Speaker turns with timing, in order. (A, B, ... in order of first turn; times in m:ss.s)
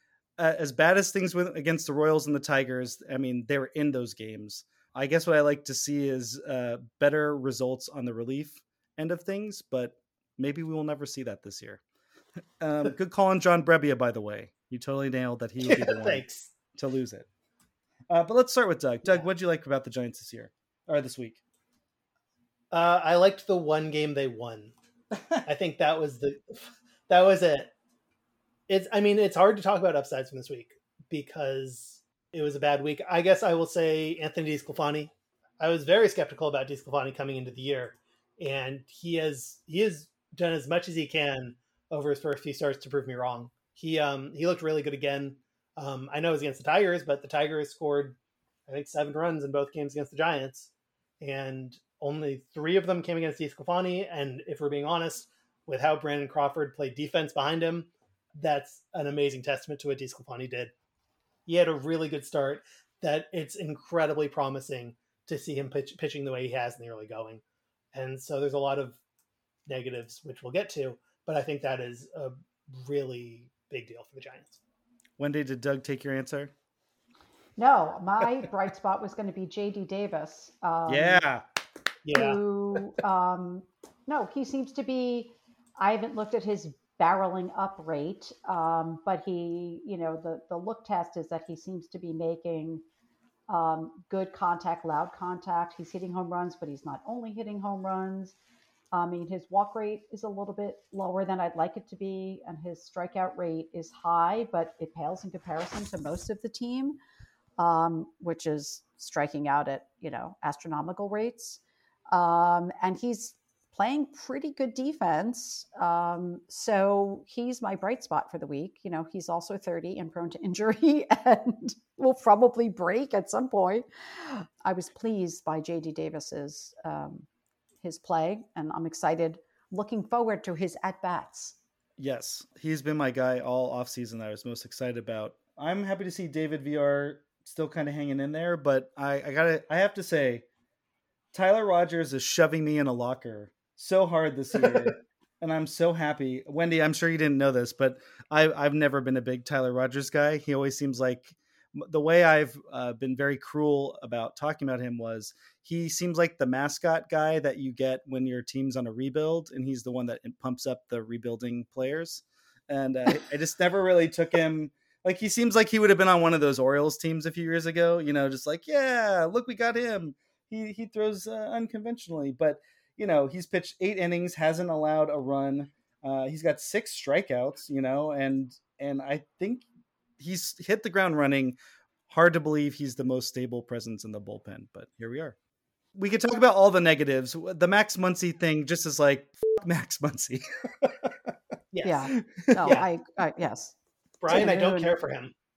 0:00.4-0:11.8 A
0:12.6-0:17.3 A
0:15.6-0:16.6 B
0:18.1-0:21.4 A
0:22.7-0:24.7 B
0:25.4-0:27.7 B
0:28.7-0:50.7 B
0:51.2-1:00.7 B
1:01.5-1:07.4 B
1:07.9-1:09.0 B
1:09.7-1:14.6 B
1:15.2-1:16.5 A
1:17.6-1:21.2 C
1:20.9-1:21.4 A
1:22.0-1:22.8 B
1:22.1-1:32.8 C
1:33.5-1:38.4 C
1:38.9-1:47.0 C
1:47.6-1:51.6 C
1:52.1-2:07.3 C
2:07.8-2:11.6 C
2:12.0-2:20.4 A
2:21.3-2:59.7 A
3:00.2-3:01.6 A
3:02.1-3:05.4 A
3:06.0-3:11.2 A
3:11.7-3:12.1 B
3:11.8-3:13.8 C
3:12.4-3:12.8 A
3:12.6-3:12.9 B
3:14.2-3:15.3 B
3:14.3-3:15.0 C